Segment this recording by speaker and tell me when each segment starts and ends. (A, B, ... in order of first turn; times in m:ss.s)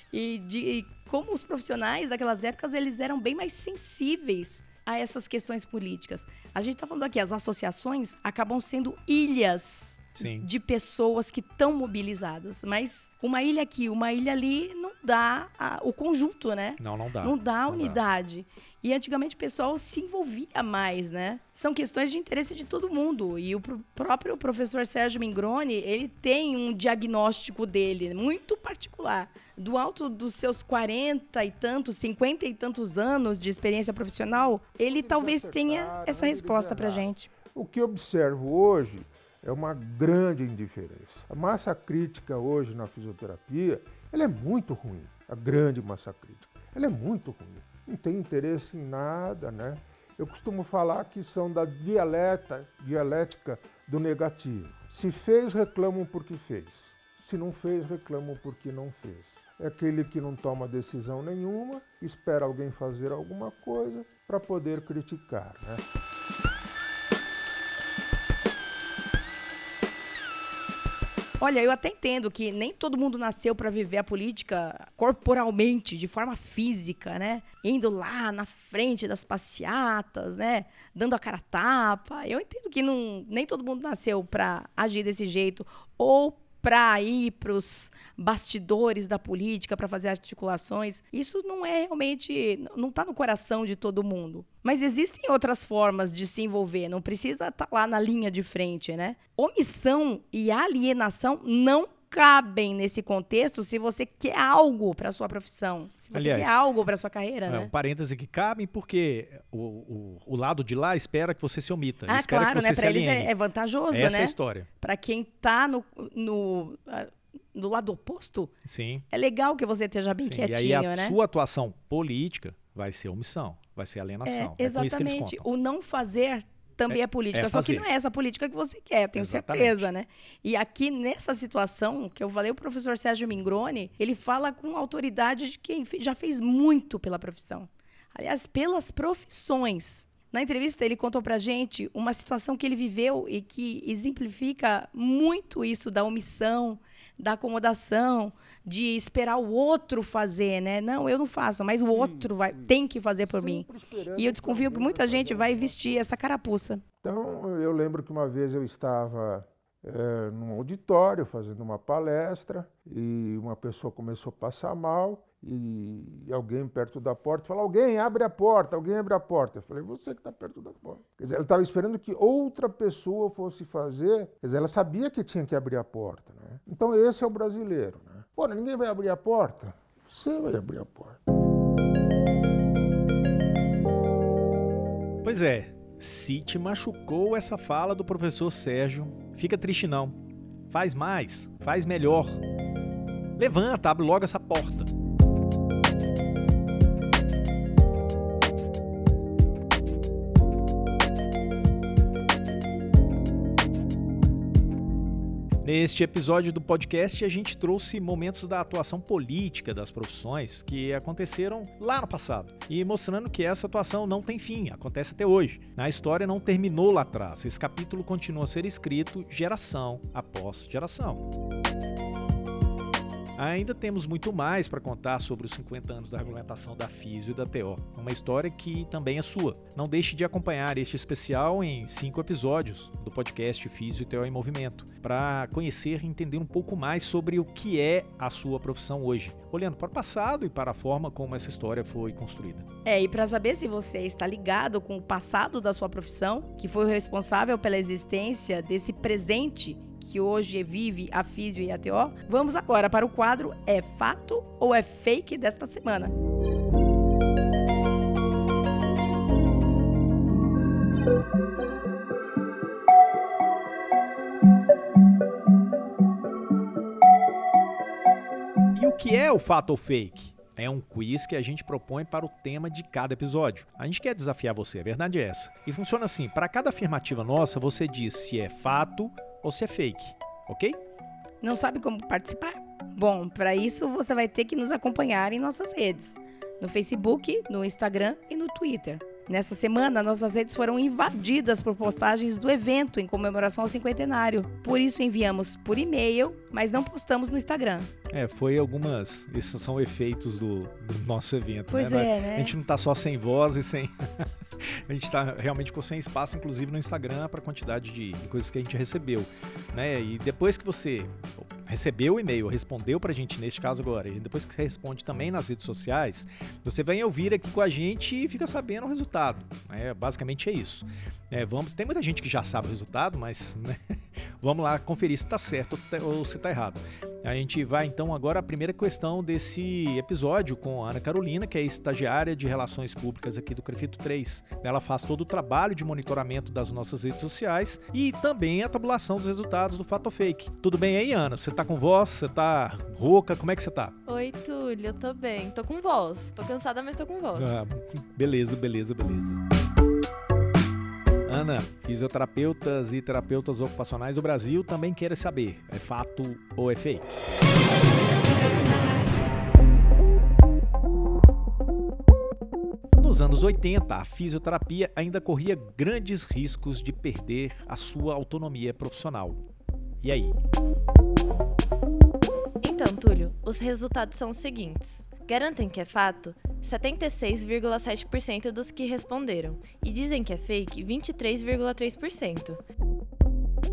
0:00.1-0:37.3 A
0:10.2-0:10.5 B
0:16.8-0:18.0 B
0:34.3-1:05.8 C
1:11.4-1:47.7 A
1:46.1-1:46.6 B
1:47.5-1:53.3 B
1:52.1-1:58.5 A
1:53.9-1:54.7 B
1:58.6-1:59.0 B
1:59.1-2:01.2 A
2:00.2-2:05.4 B
2:04.2-2:36.8 A
2:06.9-2:07.8 B
2:09.1-2:09.9 B
2:31.9-2:36.1 C
2:37.0-3:01.2 C
3:05.2-3:10.1 B
3:10.7-3:12.4 B
3:13.4-3:14.9 B
3:25.6-3:41.3 B
3:43.4-4:02.6 B
4:02.8-4:16.1 A
4:28.7-4:40.8 B
4:41.4-4:57.9 A
4:58.1-5:43.9 B
5:01.7-5:02.5 A
5:44.1-5:47.5 D
5:47.3-5:49.4 B
5:51.3-5:57.3 B
6:03.0-6:09.4 B
6:10.0-6:10.3 B
6:12.6-6:22.6 D